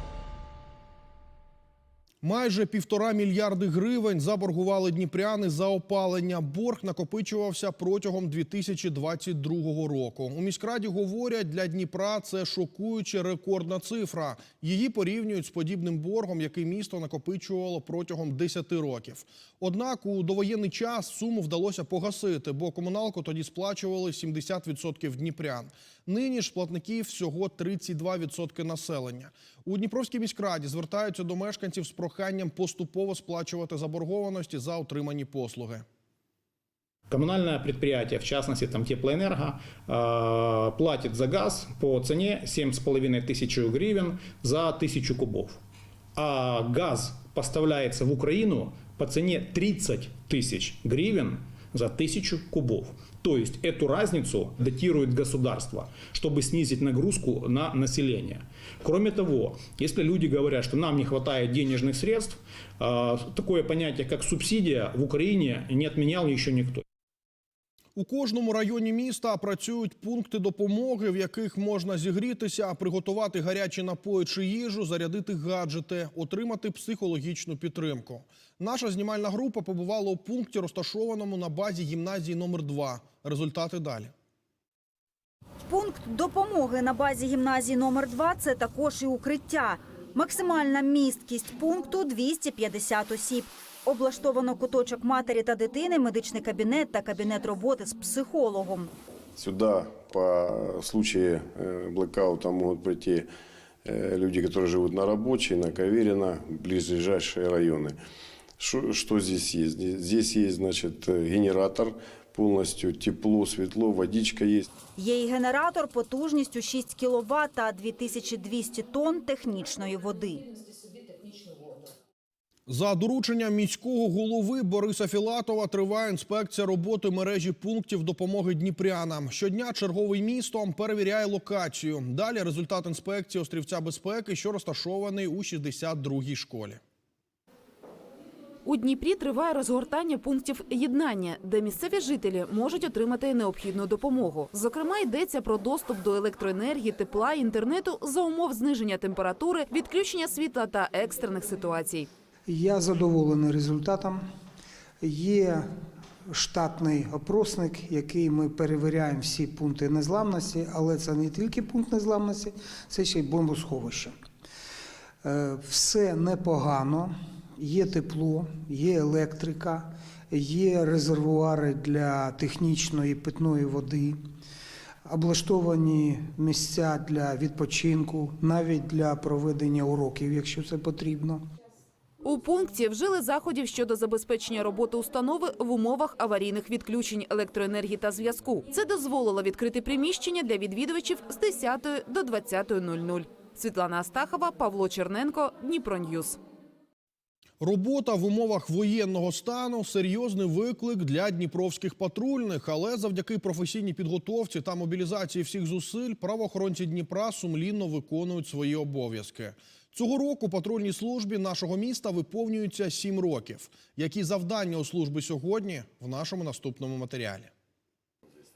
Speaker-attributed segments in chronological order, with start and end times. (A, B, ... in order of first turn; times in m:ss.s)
0:02.2-0:35.8 A
0:37.1-0:45.6 B
0:46.2-1:06.8 B
1:08.0-1:24.1 A
1:25.6-1:38.9 C
1:39.4-1:43.3 D
1:43.8-1:48.0 D
1:48.6-1:54.7 D
1:55.0-2:00.5 C
2:02.7-2:16.8 A
2:18.6-2:32.1 E
2:32.5-2:34.3 F
2:35.0-2:35.7 F
2:36.3-2:44.2 F
2:45.2-2:54.2 F
2:55.1-3:01.5 F
3:02.2-3:16.4 E
3:17.6-3:37.5 A